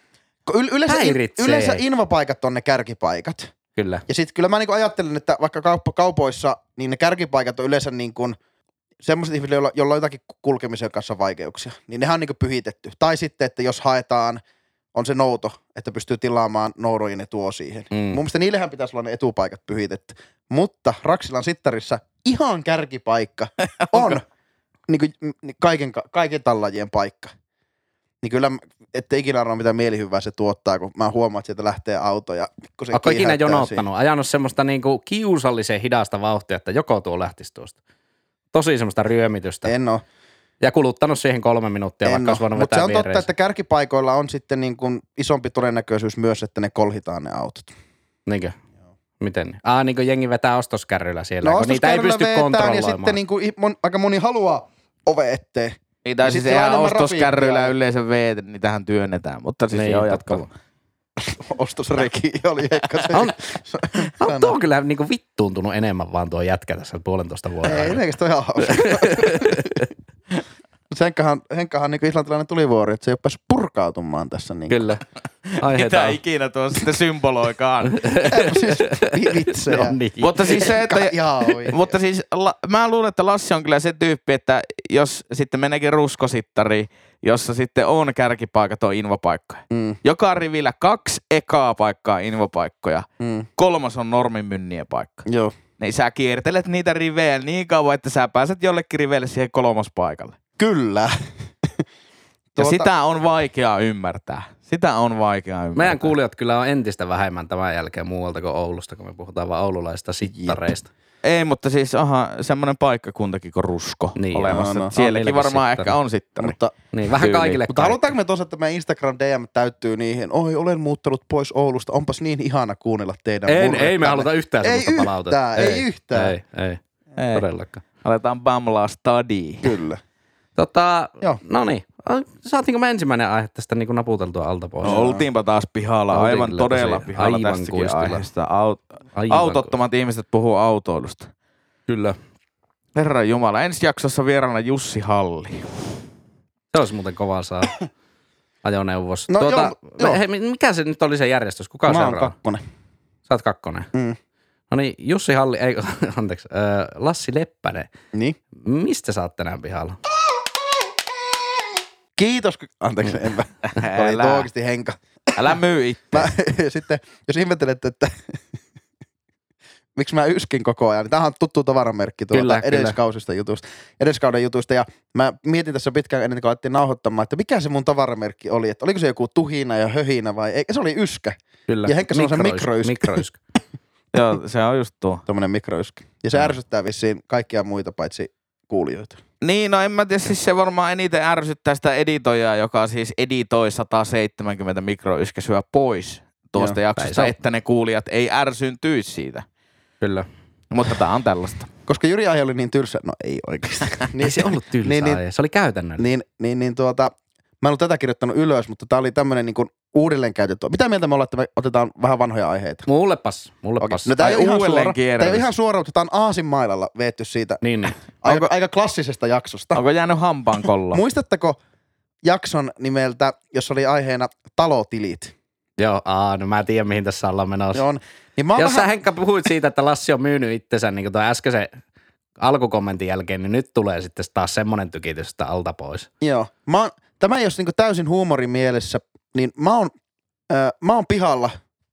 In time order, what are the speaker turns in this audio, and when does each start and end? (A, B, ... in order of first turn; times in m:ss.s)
0:00.5-0:03.5 A
0:00.9-0:01.8 B
0:03.8-0:04.0 B
0:04.1-0:08.4 A
0:09.0-0:14.4 A
0:14.9-0:24.2 A
0:17.9-0:18.2 B
0:24.9-0:27.3 A
0:28.2-0:33.8 A
0:32.9-0:37.8 B
0:38.5-0:39.7 B
0:39.6-0:40.0 A
0:40.6-0:43.3 B
0:42.0-0:47.7 A
0:48.3-0:48.5 B
0:49.2-0:53.2 B
0:51.4-0:57.7 A
0:56.0-1:00.5 C
0:59.7-1:00.4 B
1:01.2-1:04.5 A
1:03.1-1:03.4 B
1:04.2-1:08.0 B
1:07.6-1:09.8 A
1:08.6-1:09.8 B
1:10.9-1:14.8 A
1:14.7-1:15.0 B
1:15.4-1:18.0 C
1:15.6-1:16.2 B
1:17.9-1:20.7 B
1:18.2-1:21.9 A
1:20.2-1:21.2 C
1:21.7-1:35.2 C
1:29.7-1:30.0 A
1:33.2-1:33.5 A
1:35.2-1:35.5 A
1:35.8-1:40.4 C
1:40.6-1:41.1 A
1:42.5-1:42.9 A
1:42.6-1:46.1 C
1:45.8-1:50.9 B
1:50.3-1:50.6 A
1:51.2-1:56.6 C
1:54.2-1:56.0 B
1:54.5-1:54.9 A
1:56.4-1:56.7 A
1:56.9-1:58.1 B
1:57.1-1:57.6 C
1:57.7-2:06.3 A
2:03.5-2:06.8 B
2:07.2-2:07.4 C
2:07.3-2:07.8 B
2:08.0-2:09.7 C
2:09.6-2:10.0 A
2:10.6-2:15.0 B
2:14.8-2:15.2 A
2:14.8-2:21.3 C
2:16.1-2:18.2 B
2:19.1-2:19.7 B
2:21.9-2:22.2 B
2:22.9-2:25.9 C
2:26.7-2:27.8 B
2:28.6-2:32.3 B
2:29.3-2:30.2 A
2:31.9-2:32.6 A
2:33.3-2:33.9 B
2:34.7-2:37.9 B
2:38.6-2:40.0 B
2:42.2-2:45.0 A
2:43.7-2:44.5 C
2:45.4-2:46.3 C
2:46.1-2:48.3 A
2:50.0-3:03.2 A
2:52.3-2:53.0 B
3:01.7-3:03.4 B
3:04.1-3:05.2 C
3:05.2-3:09.2 A
3:09.4-3:19.4 C
3:17.0-3:17.3 B
3:20.0-3:20.3 B
3:20.7-3:21.7 C
3:21.9-3:25.2 A
3:24.2-3:26.1 B
3:26.0-3:32.9 A
3:32.9-3:34.2 B
3:33.8-3:37.6 A
3:34.2-3:35.5 C
3:37.6-3:38.0 B
3:38.2-3:39.8 A
3:39.7-3:41.0 C
3:40.9-3:41.6 A
3:42.2-3:45.3 A
3:45.8-3:47.8 B
3:47.7-3:48.9 A
3:48.6-3:51.7 B
3:52.4-3:56.1 B
3:56.2-3:59.9 A
4:00.5-4:01.6 A